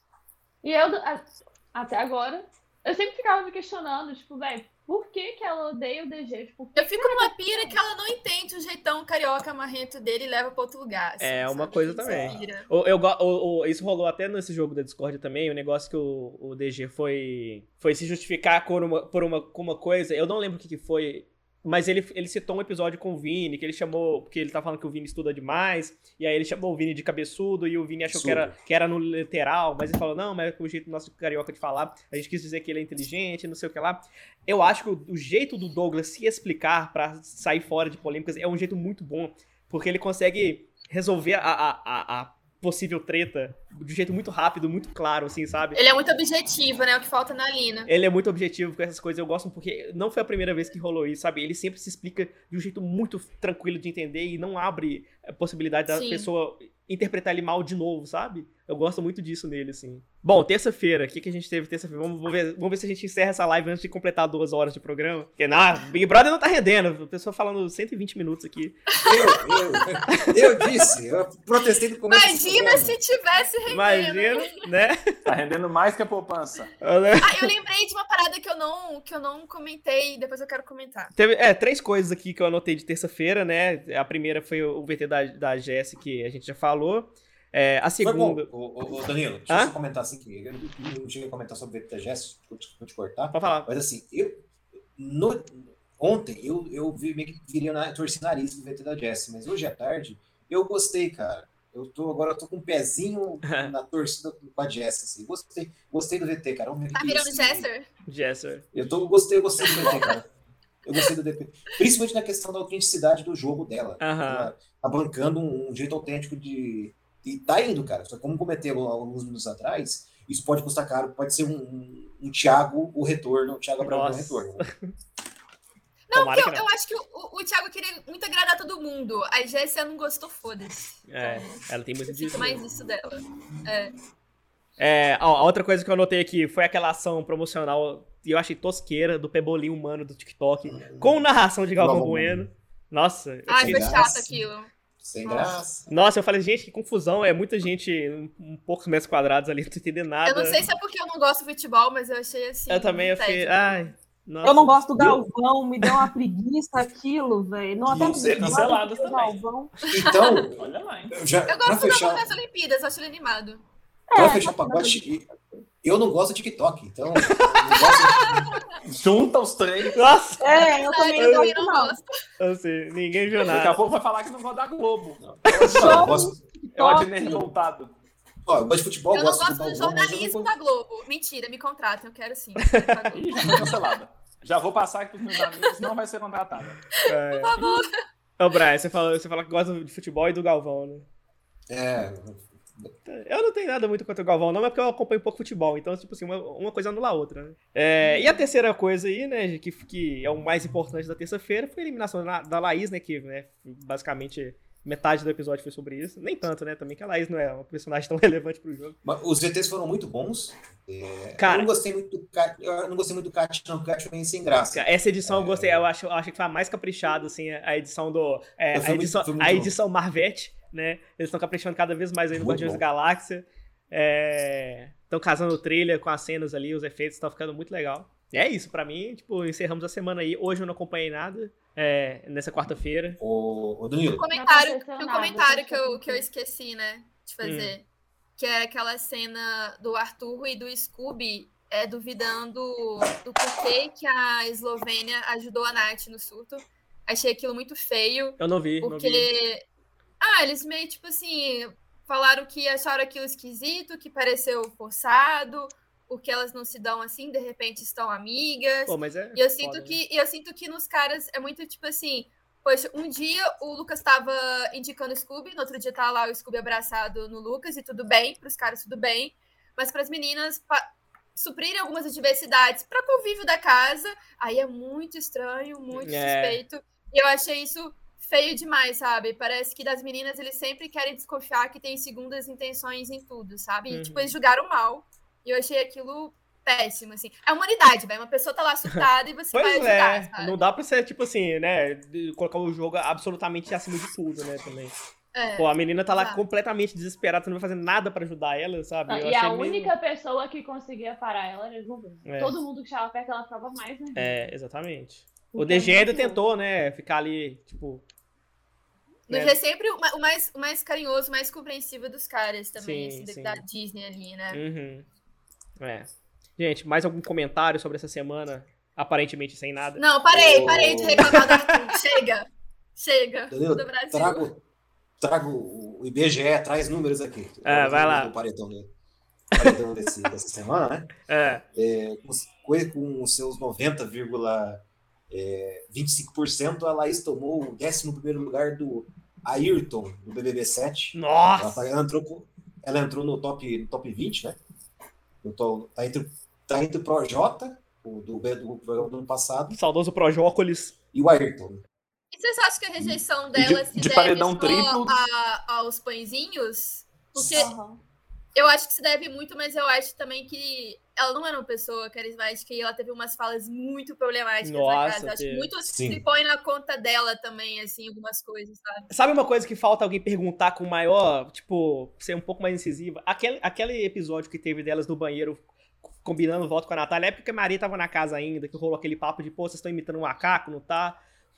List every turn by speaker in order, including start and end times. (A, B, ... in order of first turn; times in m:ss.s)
0:00.6-0:07.7 A
0:06.8-0:12.7 B
0:11.2-0:45.8 C
0:12.0-0:12.4 D
0:28.1-0:28.6 D
0:45.7-0:47.9 B
0:47.9-1:08.9 C
0:55.9-0:56.3 B
1:08.9-1:10.0 B
1:09.0-1:13.0 D
1:10.1-1:10.4 C
1:12.1-1:14.6 B
1:13.7-1:15.0 C
1:15.2-1:16.7 E
1:16.8-1:17.5 C
1:17.2-1:21.1 B
1:21.2-1:28.5 C
1:28.0-1:34.4 D
1:33.3-1:33.7 C
1:35.0-1:47.7 D
1:43.4-1:43.7 C
1:46.9-1:47.9 B
1:48.1-1:48.7 C
1:48.7-1:50.2 D
1:49.6-1:50.1 B
1:49.6-1:50.0 E
1:50.8-2:04.6 D
1:54.0-1:54.5 C
2:03.8-2:04.9 C
2:06.1-2:13.9 B
2:06.1-2:06.7 C
2:11.1-2:12.6 C
2:14.8-2:24.1 C
2:20.6-2:21.2 D
2:21.8-2:22.5 D
2:23.5-2:24.7 B
2:23.6-2:24.4 D
2:25.0-2:25.9 D
2:25.2-2:25.6 B
2:25.9-2:30.6 C
2:30.2-2:33.9 B
2:32.7-2:35.1 C
2:34.4-2:39.7 F
2:37.9-2:38.7 D
2:38.0-2:39.4 E
2:39.9-2:42.2 D
2:39.9-2:40.4 B
2:40.5-2:41.2 E
2:41.5-2:43.6 B
2:44.1-2:45.0 F
2:44.2-2:45.3 D
2:45.8-2:48.5 D
2:47.2-2:48.0 C
2:48.0-2:48.7 B
2:48.9-2:50.0 E
2:49.9-2:51.6 C
2:50.4-2:52.0 F
2:50.5-2:52.1 B
2:52.4-2:53.8 C
2:53.4-2:56.2 E
2:55.2-2:56.3 D
2:55.6-2:56.0 C
2:55.7-2:57.5 F
2:56.8-2:57.1 C
2:56.8-2:57.9 E
2:58.4-3:00.5 D
2:59.1-3:03.8 B
3:02.6-3:03.6 C
3:03.1-3:06.8 E
3:07.0-3:07.9 B
3:07.0-3:07.6 C
3:08.4-3:11.0 C
3:11.7-3:12.9 D
3:13.0-3:29.0 C
3:18.0-3:18.4 A
3:29.0-3:35.9 D
3:31.4-3:31.7 C
3:34.7-3:53.2 C
3:38.7-3:39.7 D
3:42.3-3:42.8 D
3:53.2-3:54.2 D
3:54.2-3:57.8 B
3:54.3-3:56.3 A
3:57.4-3:57.7 C
3:58.4-4:09.6 B
4:08.4-4:09.3 C
4:10.2-4:30.8 B
4:18.9-4:20.0 C
4:31.3-4:50.6 B
4:35.9-4:36.6 C
4:43.9-4:44.3 C
4:48.9-4:54.9 C
4:55.3-4:56.4 B
4:55.6-4:59.9 C
4:59.1-5:04.4 A
5:02.2-5:02.6 C
5:04.1-5:08.0 C
5:05.5-5:06.4 A
5:09.3-5:14.6 B
5:09.3-5:09.6 C
5:12.8-5:13.6 C
5:14.5-5:15.0 C
5:15.8-5:20.0 C
5:20.0-5:24.4 B
5:20.3-5:21.4 D
5:21.2-5:22.0 C
5:23.5-5:24.6 D
5:25.2-5:28.9 D
5:27.6-5:28.3 C
5:29.5-5:44.6 D
5:31.2-5:31.6 C
5:41.1-5:41.9 C
5:45.4-5:49.8 D
5:49.7-5:51.0 C
5:51.1-5:51.8 D
5:52.3-5:57.7 B
5:53.5-5:55.2 E
5:57.4-5:57.7 D
5:57.5-5:58.0 A
5:58.5-6:09.1 B
6:04.6-6:05.7 C
6:05.8-6:06.2 D
6:09.1-6:15.7 C
6:16.2-6:21.2 C